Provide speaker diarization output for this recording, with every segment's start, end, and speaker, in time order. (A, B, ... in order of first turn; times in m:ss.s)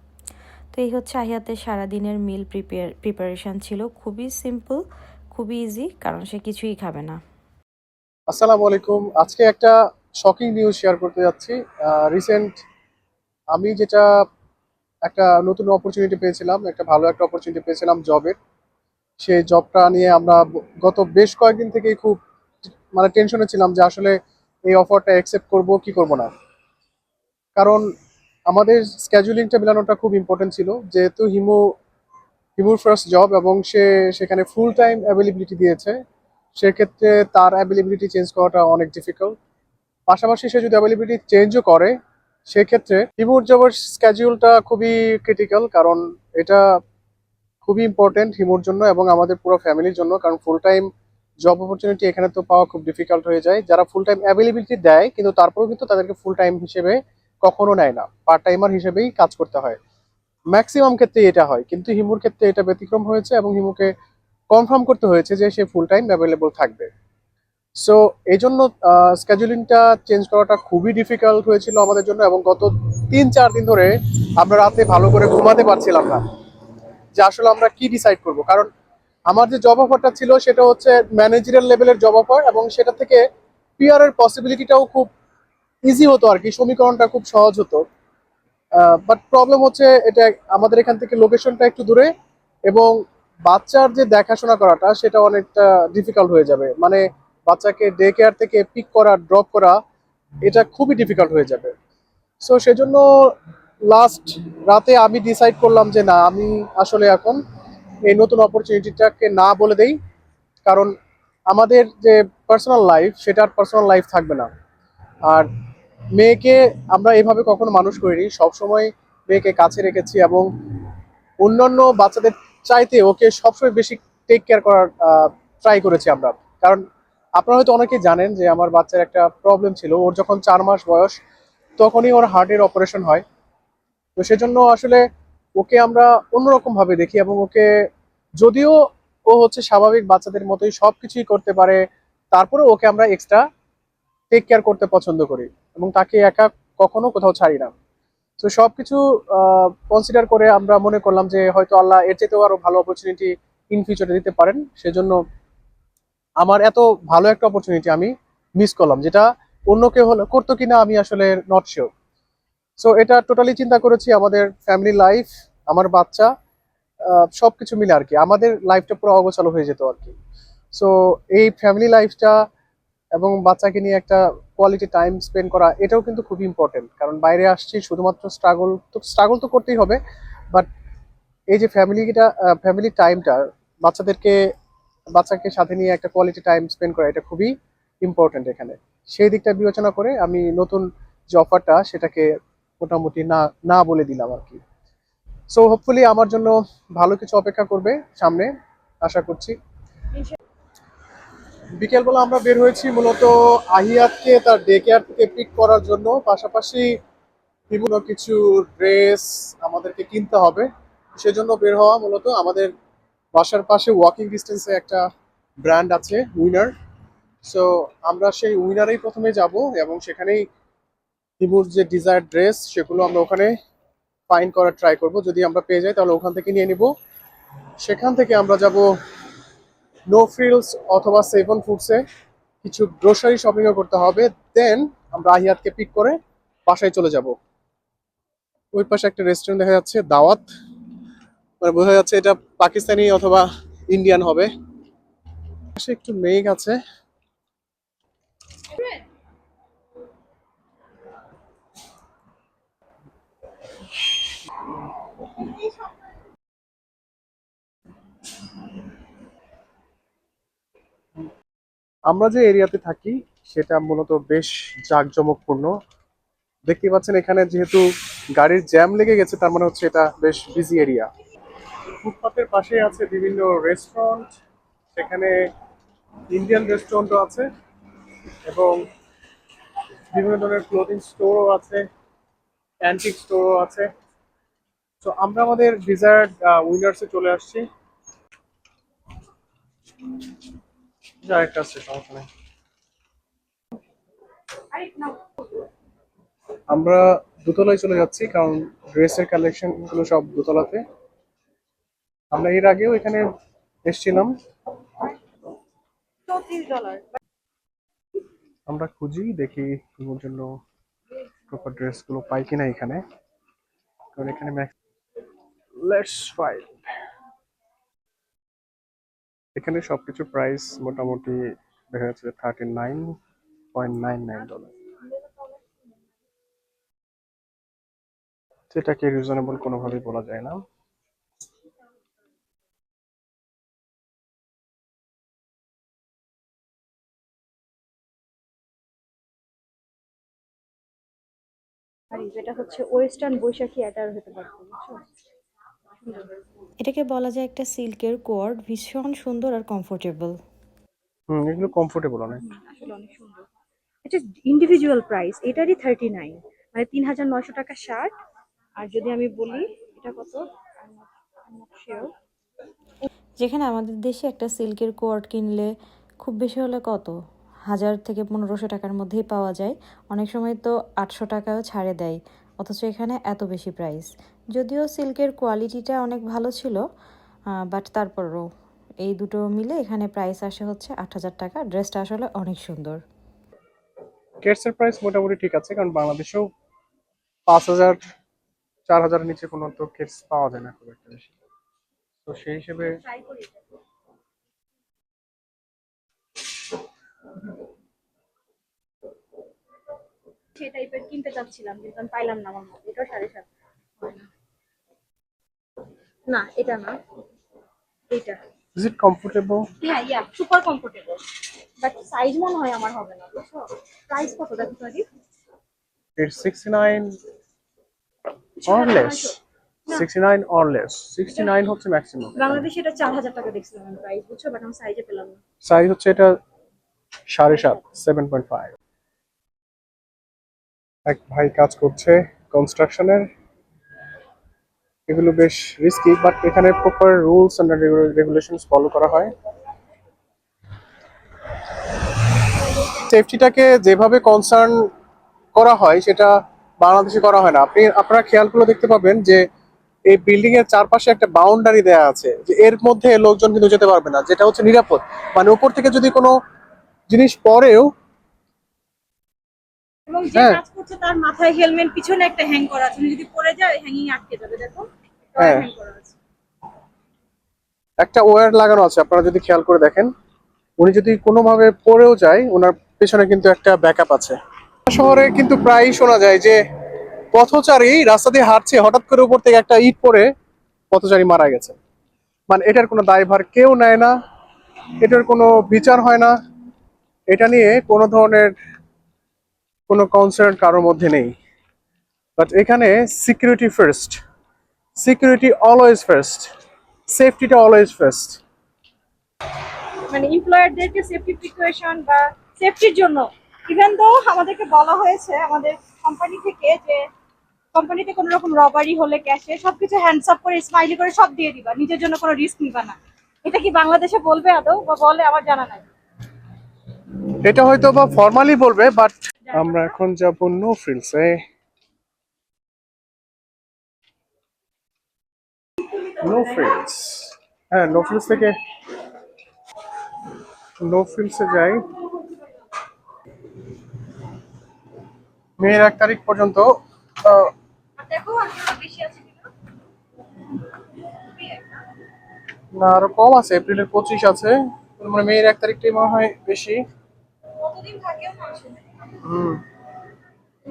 0:00.7-0:07.2 A
0:08.3-0:12.5 B
0:13.5-0:14.1 B
0:15.1-0:18.4 B
0:19.2-0:24.2 B
0:24.7-0:26.3 B
0:27.6-0:27.8 B
0:28.5-0:31.6 B
0:32.6-0:36.0 B
0:36.6-0:39.4 B
0:40.1-0:41.9 B
0:42.5-0:46.6 B
0:47.6-0:50.9 B
0:51.4-0:59.8 B
1:00.5-1:03.9 B
1:04.5-1:06.9 B
1:07.8-1:16.2 B
1:17.2-1:18.7 B
1:19.3-1:23.2 B
1:23.8-1:25.1 B
1:25.9-1:27.8 B
1:28.8-1:32.1 B
1:33.5-1:39.8 B
1:40.4-1:41.7 B
1:42.4-1:43.0 B
1:43.9-1:47.4 B
1:48.1-1:50.0 B
1:50.7-1:50.9 B
1:51.5-1:54.5 B
1:56.2-2:00.5 B
2:01.4-2:06.8 B
2:07.4-2:11.2 B
2:11.8-2:13.2 B
2:14.2-2:15.0 B
2:15.6-2:17.7 B
2:18.4-2:18.8 B
2:19.3-2:21.8 B
2:22.3-2:23.4 B
2:24.3-2:27.7 B
2:28.4-2:35.2 B
2:36.4-2:41.9 B
2:42.8-2:46.3 B
2:47.1-2:50.2 B
2:50.7-2:52.4 B
2:53.2-3:00.0 B
3:01.5-3:04.4 B
3:05.2-3:07.5 B
3:08.0-3:12.3 B
3:12.8-3:14.6 B
3:15.5-3:18.5 B
3:19.0-3:19.6 B
3:21.8-3:26.9 B
3:27.7-3:32.7 B
3:33.4-3:35.0 B
3:35.6-3:36.7 B
3:37.5-3:40.4 B
3:41.4-3:43.5 B
3:44.3-3:46.9 B
3:47.8-3:48.8 B
3:50.1-3:52.0 B
3:52.6-3:57.4 B
3:58.7-4:00.4 B
4:01.6-4:04.5 B
4:05.8-4:06.8 B
4:08.7-4:09.0 C
4:22.1-4:25.7 B
4:26.7-4:27.9 B
4:28.4-4:31.1 B
4:32.0-4:34.3 B
4:35.0-4:35.3 B
4:36.3-4:37.5 B
4:38.5-4:38.8 B
4:40.1-4:41.9 B
4:42.8-4:43.9 B
4:45.0-4:47.7 B
4:51.2-4:52.3 B
4:54.7-4:55.6 C
4:56.7-5:00.8 B
5:02.3-5:03.2 B
5:03.9-5:04.3 B
5:06.3-5:07.2 C
5:08.7-5:10.5 B
5:11.5-5:13.0 B
5:14.2-5:14.7 B
5:15.8-5:16.8 B
5:19.6-5:21.4 B
5:21.9-5:23.2 B
5:23.7-5:24.7 B
5:25.0-5:25.6 C
5:28.7-5:30.6 B
5:42.1-5:45.0 C
5:46.0-5:46.3 C
5:46.8-5:50.4 A
5:51.3-5:52.4 B
5:52.3-5:53.5 C
5:54.0-5:58.2 C
5:58.8-6:02.1 C
6:03.4-6:07.1 A
6:07.7-6:16.8 A
6:17.7-6:18.4 A
6:19.0-6:23.0 A
6:24.4-6:26.5 B
6:27.5-6:28.0 B
6:28.9-6:31.3 B
6:32.3-6:33.0 B
6:33.0-6:33.6 C
6:40.6-6:43.5 C
6:44.0-6:44.3 C
6:46.3-6:47.0 C
6:48.1-6:48.4 C
6:48.8-6:49.7 B
6:49.8-6:51.2 C
6:51.8-6:55.0 C
6:56.2-6:57.2 B
6:58.6-6:59.4 C
6:58.7-6:59.4 B
6:59.9-7:02.6 B
7:02.4-7:05.4 C
7:05.6-7:06.3 B
7:07.3-7:08.7 B
7:11.1-7:13.3 B
7:15.1-7:19.3 B
7:22.9-7:24.8 B
7:25.6-7:29.4 B
7:30.1-7:36.3 B
7:37.1-7:37.9 B
7:40.1-7:46.1 C
7:40.3-7:40.6 B
7:45.4-7:45.7 B
7:48.0-7:50.1 B
7:50.8-7:54.4 B
7:54.9-7:56.6 B
7:57.3-8:00.3 B
8:00.9-8:01.8 B
8:02.5-8:04.1 B
8:05.0-8:06.3 B
8:07.3-8:08.5 B
8:09.9-8:11.3 B
8:12.4-8:14.2 B
8:15.0-8:16.5 B
8:17.1-8:18.4 B
8:20.1-8:27.0 C
8:27.7-8:35.9 C
8:37.4-8:41.4 B
8:46.2-8:48.6 B
8:50.8-8:51.8 B
8:55.6-8:56.7 B
8:57.2-8:57.5 B
8:58.0-8:59.5 C
9:01.3-9:01.8 C
9:02.7-9:06.8 B
9:07.6-9:09.1 C
9:09.2-9:09.6 B